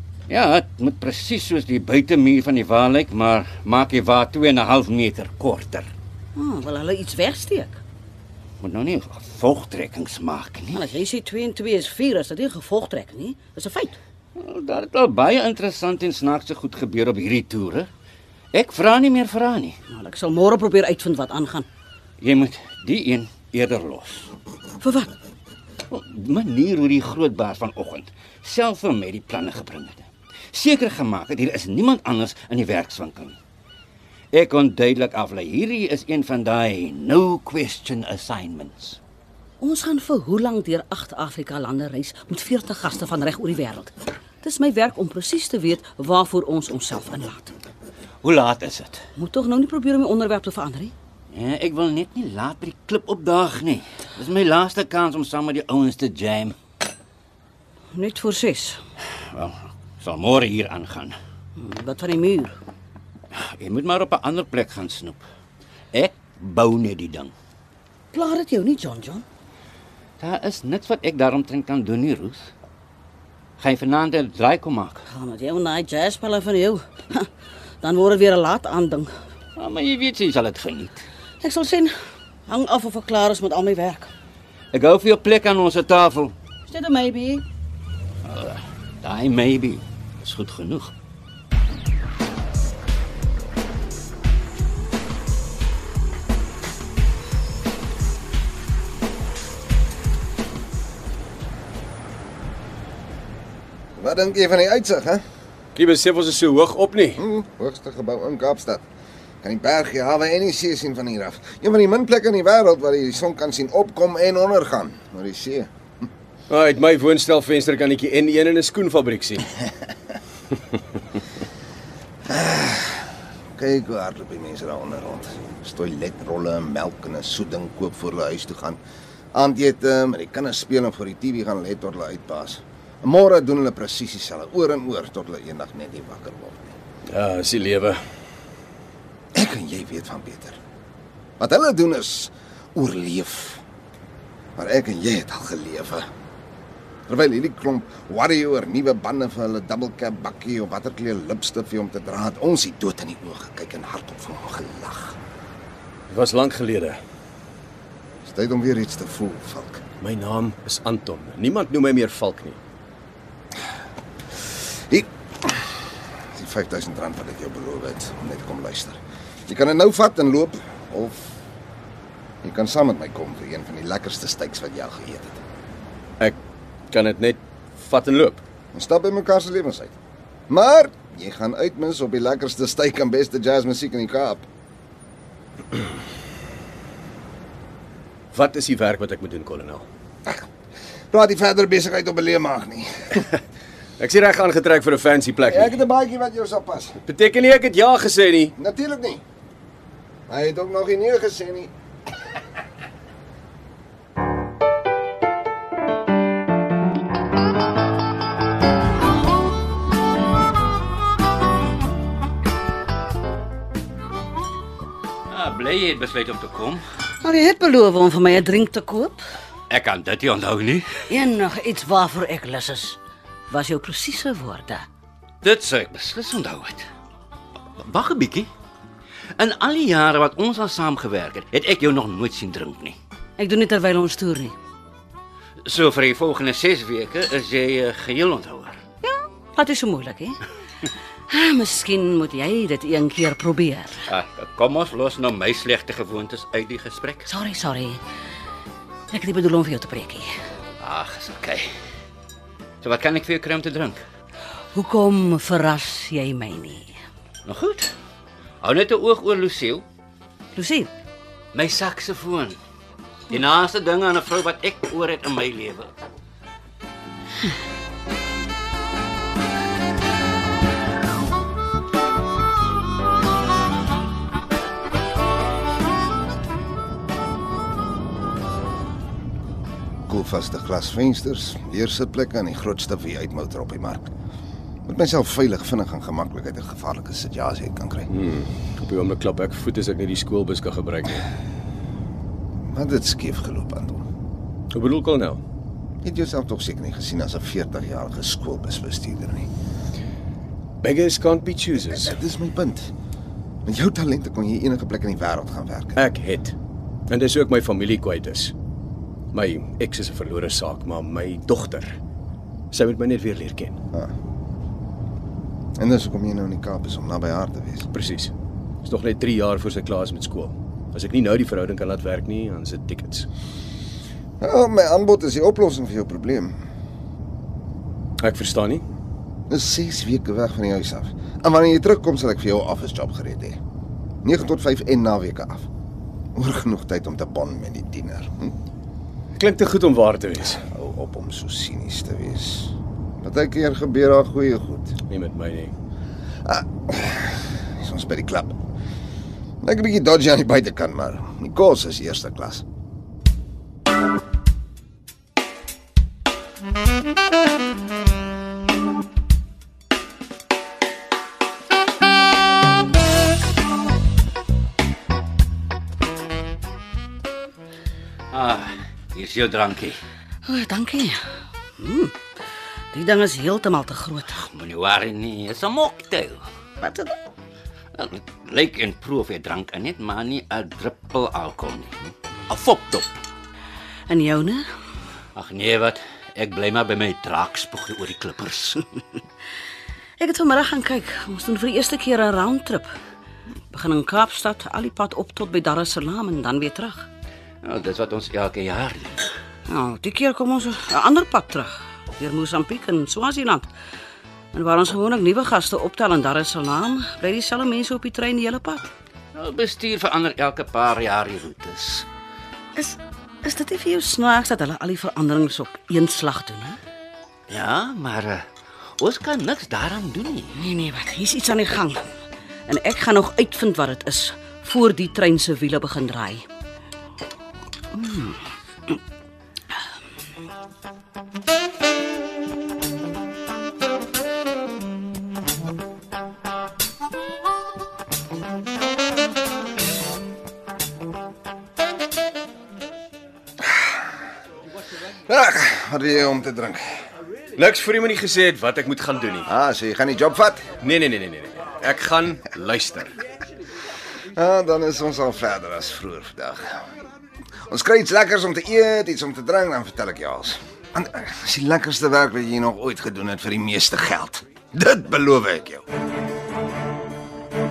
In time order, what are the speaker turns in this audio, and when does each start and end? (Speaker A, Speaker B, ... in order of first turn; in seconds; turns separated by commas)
Speaker A: 0.3-5.9, Speaker B: 6.3-7.8, Speaker A: 8.6-10.8, Speaker B: 10.7-14.0, Speaker A: 14.4-17.9, Speaker A: 18.5-19.8, Speaker B: 19.9-21.7, Speaker A: 22.2-24.3, Speaker B: 24.8-25.1, Speaker A: 25.9-33.4, Speaker A: 34.3-39.0, Speaker B: 39.6-47.5, Speaker A: 48.2-49.0, Speaker B: 49.1-50.9, Speaker A: 51.3-56.5, Speaker B: 57.9-58.8, Speaker A: 59.3-61.1, Speaker B: 61.6-62.5, Speaker A: 63.3-65.2, Speaker A: 65.9-67.3, Speaker B: 68.1-69.2, Speaker A: 70.2-72.4, Speaker A: 73.6-75.0, Speaker B: 75.1-77.3, Speaker B: 77.8-79.1, Speaker A: 79.6-81.0, Speaker B: 81.4-81.9, Speaker B: 82.5-84.1, Speaker A: 84.7-86.3, Speaker B: 86.7-87.4, Speaker A: 88.2-90.9, Speaker C: 104.0-105.2, Speaker D: 105.8-107.2, Speaker C: 107.2-108.8, Speaker C: 109.4-115.7, Speaker D: 116.5-119.4, Speaker C: 122.3-128.8, Speaker C: 129.3-136.7, Speaker D: 137.1-138.0, Speaker C: 139.3-140.6, Speaker C: 141.4-143.6, Speaker C: 144.6-146.1, Speaker C: 147.1-155.2, Speaker D: 156.1-157.0, Speaker C: 158.2-159.8, Speaker D: 160.0-162.6, Speaker C: 164.9-165.7, Speaker C: 166.3-171.4, Speaker C: 172.4-175.4, Speaker D: 176.9-178.4, Speaker C: 178.7-179.9, Speaker C: 180.5-184.4, Speaker D: 188.3-189.8, Speaker C: 191.1-193.3, Speaker D: 194.0-195.6, Speaker C: 195.4-196.9, Speaker D: 197.0-198.5, Speaker C: 198.6-199.2, Speaker C: 200.3-201.7, Speaker A: 215.3-216.8, Speaker B: 217.2-219.2, Speaker A: 219.7-221.0, Speaker B: 221.1-223.0, Speaker B: 223.5-224.8, Speaker A: 225.4-226.9, Speaker A: 227.8-228.5, Speaker A: 229.3-233.0, Speaker B: 233.4-234.5, Speaker A: 235.6-238.8, Speaker B: 239.0-240.4, Speaker B: 241.3-244.0, Speaker A: 244.1-247.3, Speaker B: 247.2-248.0, Speaker B: 249.1-250.3, Speaker A: 250.8-251.7, Speaker A: 252.8-254.0, Speaker B: 254.7-256.9, Speaker A: 257.4-257.9, Speaker A: 258.6-259.8, Speaker B: 260.5-260.9, Speaker A: 261.5-262.6, Speaker A: 263.3-265.9, Speaker C: 280.1-284.1, Speaker C: 284.8-288.1, Speaker D: 288.1-291.2, Speaker C: 292.7-294.1, Speaker D: 294.7-295.4, Speaker C: 296.0-299.5, Speaker D: 300.8-302.1, Speaker C: 301.9-302.9, Speaker C: 303.6-306.0, Speaker D: 306.0-306.5, Speaker D: 307.1-308.5, Speaker D: 309.3-312.0, Speaker D: 312.7-313.8, Speaker C: 315.8-317.9, Speaker D: 317.9-323.3, Speaker C: 324.4-326.6, Speaker D: 328.2-328.8, Speaker C: 329.5-333.6, Speaker C: 334.2-335.7, Speaker C: 336.4-338.5, Speaker D: 339.4-340.6, Speaker C: 340.7-345.0, Speaker D: 345.1-345.7, Speaker C: 346.4-348.6, Speaker C: 349.6-352.6, Speaker A: 368.3-370.0, Speaker B: 370.4-371.2, Speaker B: 371.8-372.1, Speaker B: 372.9-374.4, Speaker A: 374.5-376.4, Speaker B: 376.8-377.1, Speaker A: 377.9-383.1, Speaker B: 384.1-384.6, Speaker A: 385.3-388.9, Speaker B: 390.2-392.9, Speaker B: 393.7-397.1, Speaker A: 397.6-399.3, Speaker B: 399.7-403.7, Speaker B: 404.5-408.9, Speaker A: 409.3-412.1, Speaker B: 412.7-416.8, Speaker A: 417.5-418.4, Speaker A: 419.0-420.5, Speaker B: 420.5-422.0, Speaker B: 422.7-426.4, Speaker B: 427.9-428.4, Speaker C: 445.3-446.8, Speaker D: 447.6-449.5, Speaker C: 449.5-450.6, Speaker D: 450.8-453.1, Speaker C: 454.3-456.9, Speaker C: 457.7-465.8